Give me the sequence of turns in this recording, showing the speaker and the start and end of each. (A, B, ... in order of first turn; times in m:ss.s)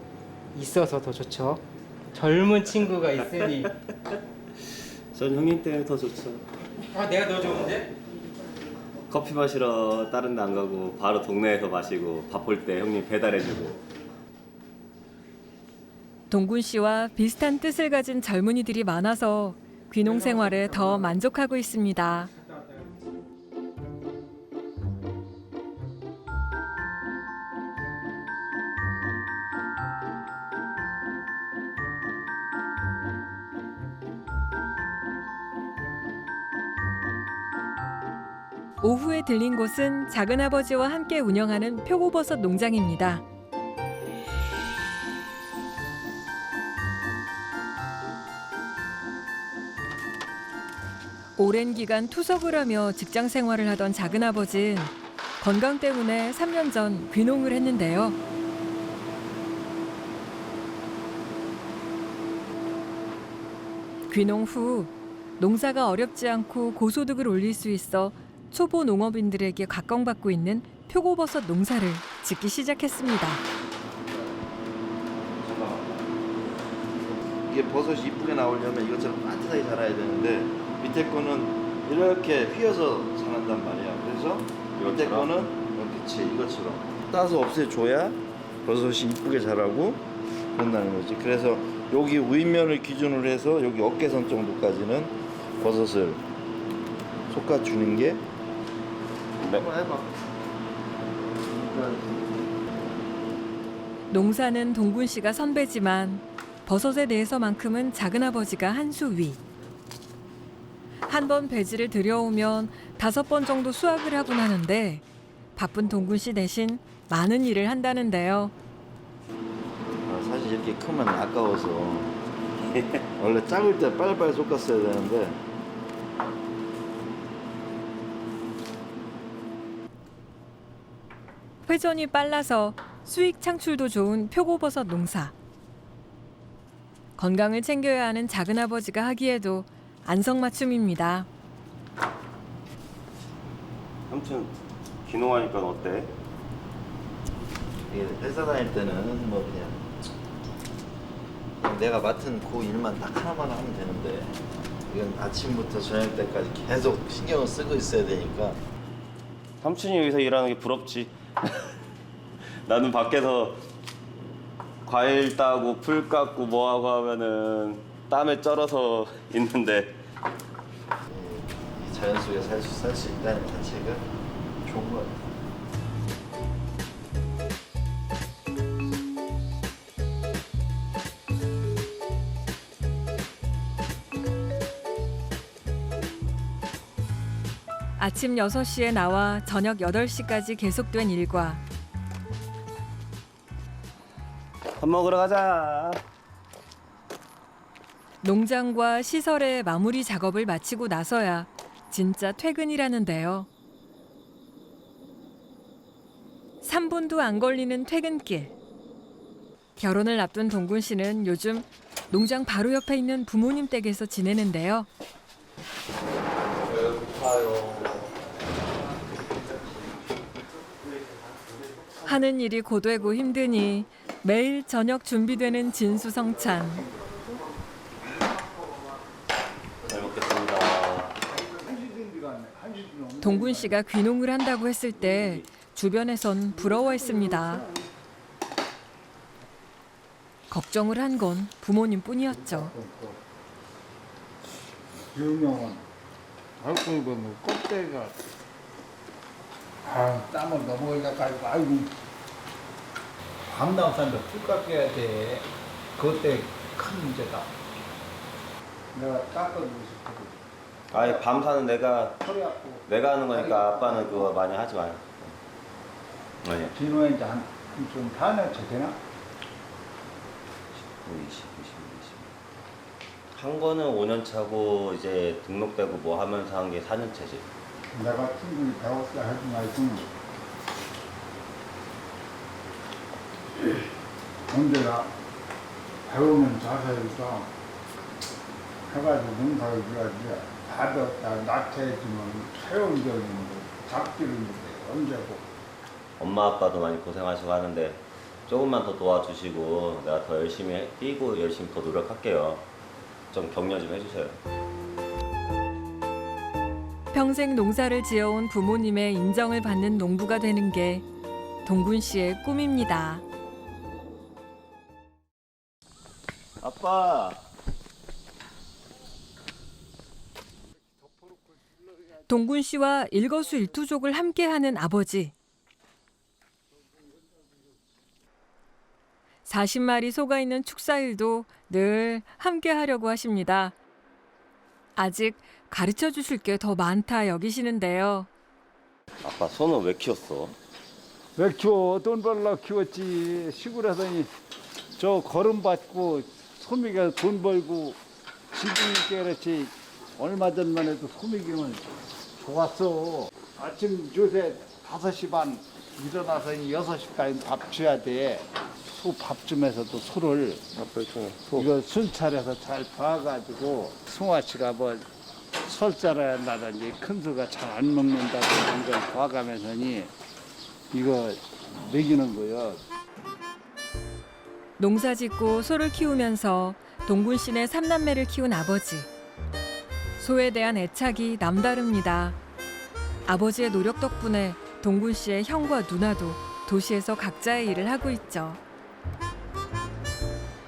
0:00.5-0:01.6 A
0:02.1-0:03.7 A
0:02.8-0:04.1 B
0:05.1-0:06.4 B
0:06.9-0:07.9 A
0:09.1-0:13.8 B
0:16.3-0:22.3 C
0:20.0-0:21.2 A
0:22.4-0:23.0 A
0:38.8-0:43.2 C
0:51.4-0:58.2 C
1:04.1-1:13.4 C
1:15.4-1:16.0 B
1:17.4-1:30.0 D
1:24.8-1:25.3 B
1:30.5-1:36.2 D
1:37.3-1:38.2 D
1:39.4-1:39.7 B
1:39.4-1:40.1 D
1:41.5-1:42.5 D
1:44.1-1:49.4 C
1:51.1-1:55.0 C
1:55.5-1:58.5 C
2:00.0-2:02.1 D
2:03.2-2:05.4 D
2:11.6-2:15.3 C
2:17.2-2:21.3 C
2:24.1-2:26.1 B
2:27.9-2:29.9 D
2:31.6-2:34.4 D
2:34.9-2:38.6 D
2:39.6-2:41.7 B
2:42.6-2:43.6 B
2:44.8-2:50.0 B
2:51.1-2:54.1 D
2:54.6-2:55.3 D
3:08.0-3:11.6 C
3:14.8-3:16.0 B
3:18.2-3:23.5 C
3:26.6-3:28.5 C
3:29.8-3:34.9 C
3:36.7-3:37.8 B
3:42.0-3:46.8 C
3:49.8-3:51.1 B
3:51.3-3:53.8 E
3:53.2-3:57.6 C
3:55.0-3:55.4 B
3:56.6-3:57.8 E
4:00.5-4:02.7 C
4:02.3-4:03.2 E
4:05.1-4:05.8 E
4:06.6-4:08.1 E
4:09.8-4:11.9 E
4:13.5-4:17.5 E
4:18.9-4:20.4 E
4:20.9-4:22.2 B
4:20.9-4:21.4 E
4:22.2-4:24.3 E
4:22.8-4:25.4 B
4:26.4-4:26.7 B
4:26.7-4:29.0 E
4:30.9-4:32.3 B
4:33.3-4:37.5 B
4:37.9-4:40.1 E
4:44.5-4:45.1 E
4:46.0-4:47.5 E
4:48.9-4:55.4 E
4:56.2-5:02.7 B
5:03.3-5:04.4 B
5:07.1-5:11.0 C
5:11.6-5:13.2 C
5:16.6-5:17.4 D
5:22.3-5:25.3 C
5:29.4-5:33.7 C
5:35.0-5:38.3 C
5:39.2-5:40.6 B
5:41.4-5:44.3 E
5:45.0-5:48.0 E
5:48.5-6:00.6 E
6:00.7-6:01.7 B
6:01.5-6:05.0 E
6:05.6-6:10.1 E
6:10.9-6:12.8 E
6:14.8-6:19.1 C
6:20.2-6:22.4 C
6:23.3-6:28.6 C